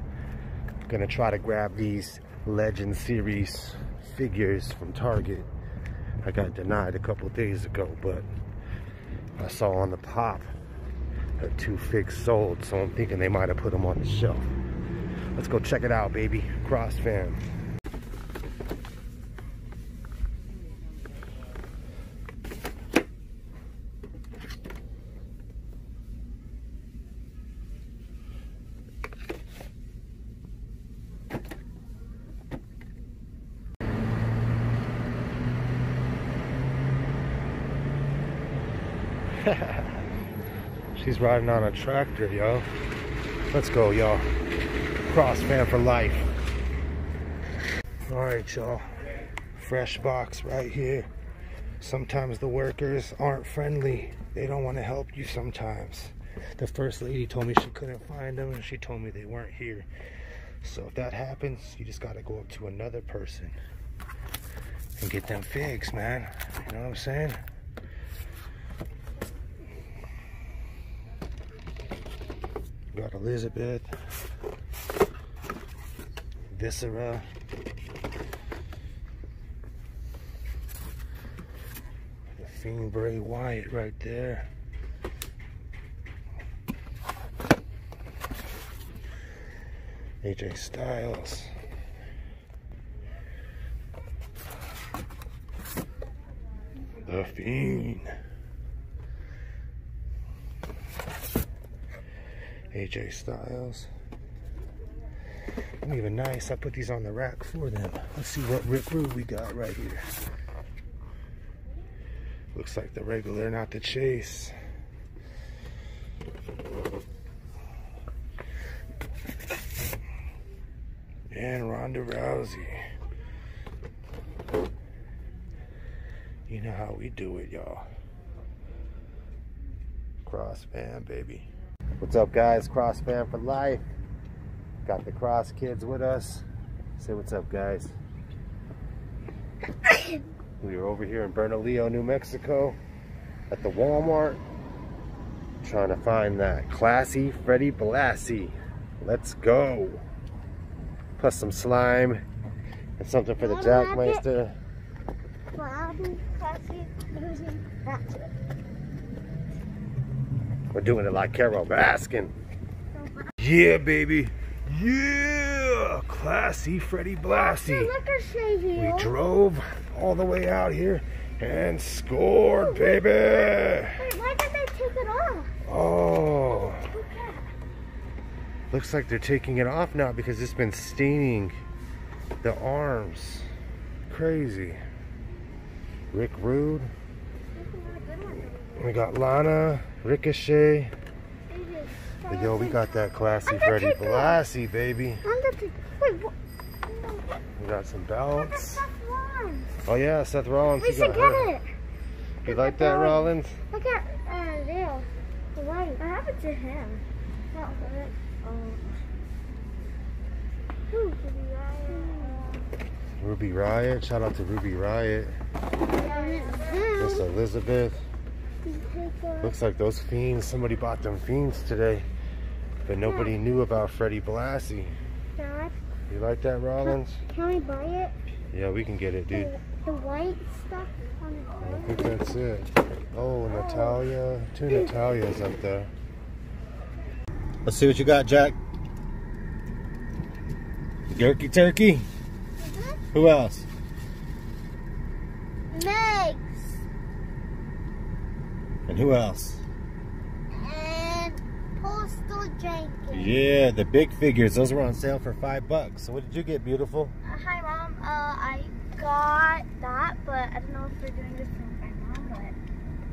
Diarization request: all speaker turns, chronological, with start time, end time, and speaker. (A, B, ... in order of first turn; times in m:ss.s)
0:00.9-0:05.5 A
0:06.2-0:08.3 A
0:09.4-0:10.5 A
0:11.4-0:14.5 A
0:15.4-0:17.4 A
0:39.4-0:40.0 A
0:41.0-0:42.7 A
0:43.5-0:44.3 A
0:45.1-0:46.3 A
0:48.1-0:48.9 A
0:49.6-0:51.1 A
0:51.8-0:59.9 A
1:00.6-1:03.5 A
1:05.0-1:07.4 A
1:12.9-1:13.9 A
1:16.5-1:17.3 A
1:22.4-1:24.5 A
1:30.2-1:31.5 A
1:37.0-1:38.1 A
1:42.7-1:43.9 A
1:45.8-1:50.0 A
1:52.5-1:54.6 A
2:01.3-2:02.8 A
2:06.5-2:07.9 A
2:10.2-2:11.5 A
2:12.0-2:13.8 A
2:14.8-2:16.4 A
2:17.0-2:18.0 A
2:20.6-2:22.8 A
2:23.5-2:24.4 A
2:25.6-2:30.0 A
2:31.2-2:32.2 A
2:33.0-2:34.6 A
2:33.4-2:34.2 B
2:35.6-2:38.2 B
2:40.7-2:42.4 A
2:43.4-2:47.9 A
2:47.3-2:49.1 B
2:48.8-2:54.0 A
2:52.5-2:53.0 B
2:54.0-2:55.5 B
2:55.6-2:56.9 A
2:56.7-2:57.5 B
2:58.7-3:01.6 A
3:02.4-3:03.5 A
3:04.1-3:04.8 A
3:06.1-3:06.9 A
3:07.6-3:08.8 B
3:08.8-3:10.9 A
3:11.5-3:12.9 B
3:12.3-3:15.2 A
3:13.5-3:14.4 B
3:15.2-3:16.3 B
3:16.9-3:17.4 B
3:17.6-3:18.9 A
3:18.4-3:19.7 B
3:19.8-3:21.5 A
3:20.8-3:21.7 B
3:22.4-3:23.6 A
3:22.5-3:28.9 B
3:30.9-3:32.6 B
3:33.2-3:35.4 A
3:36.0-3:37.3 B
3:37.0-3:38.0 A
3:38.7-3:39.6 B
3:39.4-3:42.1 A
3:42.8-3:45.0 A
3:43.0-3:43.3 B
3:45.4-3:45.8 B
3:46.1-3:47.2 A
3:47.3-3:48.2 B
3:48.5-3:49.6 A
3:49.3-3:52.2 B
3:51.6-3:55.9 A
3:53.5-3:54.0 B
3:57.6-3:58.6 A
4:01.1-4:02.1 A
4:02.6-4:03.0 B
4:03.1-4:03.7 A
4:05.7-4:06.8 B
4:08.9-4:09.6 A
4:10.6-4:13.3 B
4:13.1-4:17.1 A
4:17.2-4:22.6 B